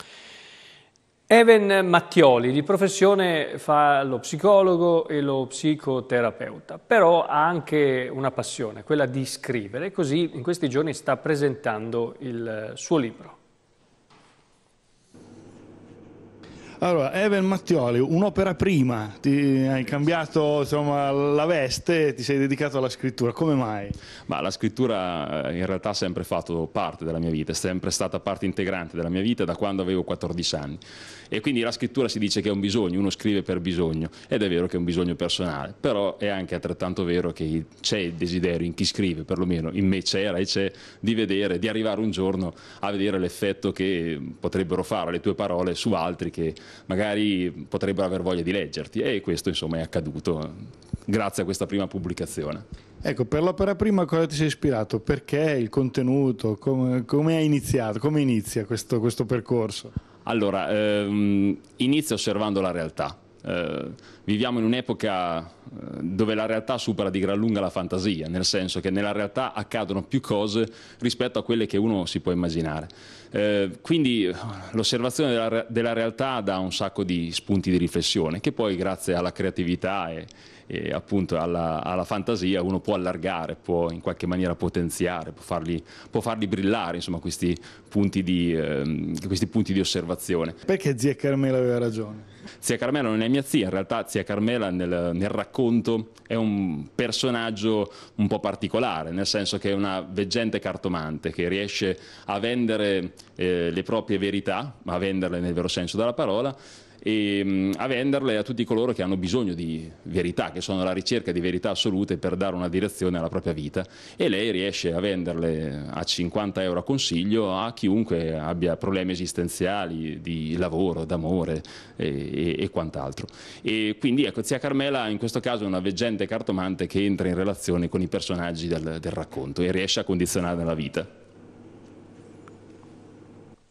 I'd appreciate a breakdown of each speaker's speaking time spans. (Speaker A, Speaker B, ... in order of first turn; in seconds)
Speaker A: 1.3-13.4
Speaker B: 16.8-24.0, 53.0-59.9, 90.7-92.2
Speaker C: 24.3-50.6, 51.1-52.6, 60.2-90.6, 92.6-131.1